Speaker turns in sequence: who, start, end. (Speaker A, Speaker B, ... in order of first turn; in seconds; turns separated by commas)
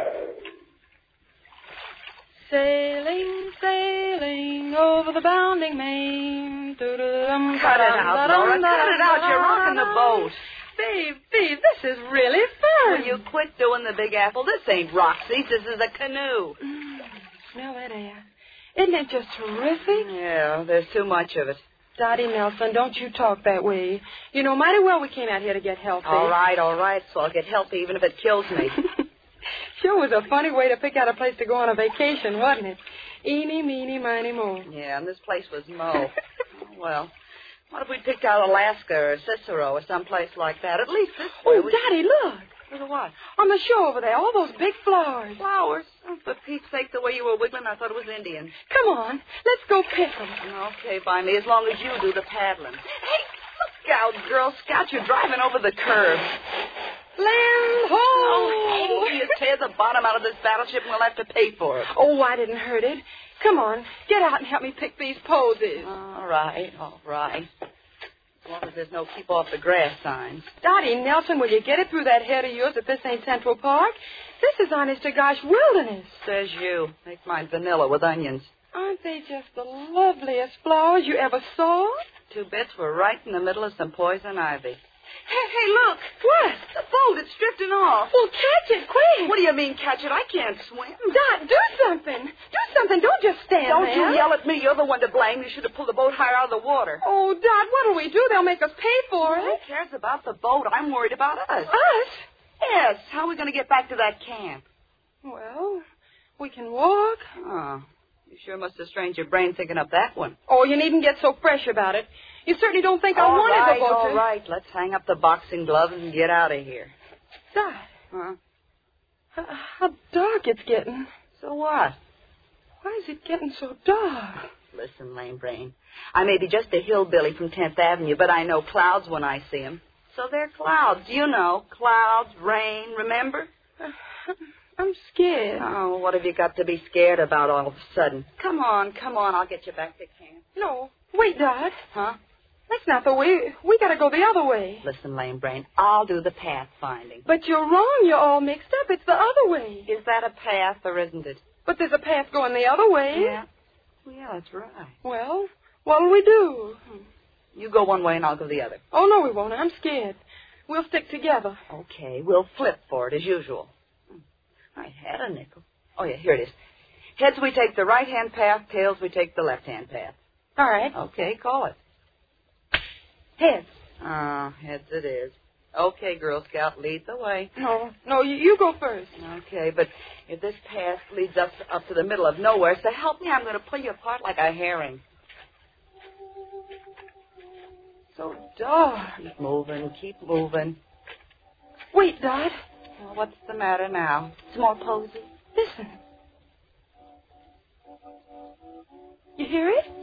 Speaker A: 2.5-13.2, Speaker B: 7.5-10.4, Speaker B: 12.8-16.6, Speaker A: 16.6-18.2, Speaker A: 18.8-20.1, Speaker B: 19.8-21.6, Speaker A: 22.0-26.4, Speaker B: 26.0-28.8, Speaker A: 29.8-34.7, Speaker B: 34.7-37.1, Speaker B: 37.7-41.8, Speaker A: 41.4-42.5, Speaker B: 42.7-43.3, Speaker A: 43.2-45.4, Speaker B: 45.4-48.5, Speaker A: 48.7-50.4, Speaker B: 50.4-53.3, Speaker B: 53.8-56.3, Speaker A: 57.2-59.3, Speaker B: 58.1-61.9, Speaker A: 61.9-65.9, Speaker B: 65.8-67.5, Speaker B: 68.5-70.5, Speaker A: 70.6-76.2, Speaker B: 76.2-78.5, Speaker A: 78.7-82.0, Speaker B: 82.3-86.1, Speaker A: 86.2-86.7, Speaker B: 86.7-88.1, Speaker A: 88.1-89.3, Speaker B: 89.2-91.2, Speaker A: 91.1-94.3, Speaker B: 93.6-97.0, Speaker A: 97.0-99.6, Speaker B: 99.2-101.7, Speaker A: 101.7-102.2, Speaker B: 102.6-104.7, Speaker A: 105.2-105.8, Speaker A: 106.4-107.3, Speaker B: 107.4-110.4, Speaker A: 110.5-114.2, Speaker B: 113.1-116.9, Speaker A: 117.5-117.9, Speaker B: 118.1-118.4, Speaker A: 119.4-121.1, Speaker B: 121.3-122.0, Speaker A: 122.8-124.4, Speaker B: 124.7-133.5, Speaker A: 133.8-135.7, Speaker B: 135.6-140.4, Speaker A: 140.6-141.8, Speaker B: 141.9-142.2, Speaker A: 142.7-144.8, Speaker B: 144.8-147.3, Speaker A: 147.3-149.9, Speaker B: 149.9-151.4, Speaker A: 151.7-153.4, Speaker B: 153.1-153.5, Speaker B: 154.1-155.0, Speaker A: 155.0-157.0, Speaker B: 157.6-158.8, Speaker A: 158.9-161.6, Speaker B: 161.7-164.2, Speaker B: 164.8-166.6, Speaker B: 167.2-170.2, Speaker A: 170.6-170.9, Speaker B: 170.9-171.8, Speaker A: 173.4-173.7, Speaker B: 174.0-177.5, Speaker A: 177.6-179.1, Speaker B: 179.2-185.0, Speaker B: 188.2-190.8, Speaker A: 191.9-192.6, Speaker B: 193.0-195.3, Speaker A: 195.6-196.0, Speaker A: 199.4-199.9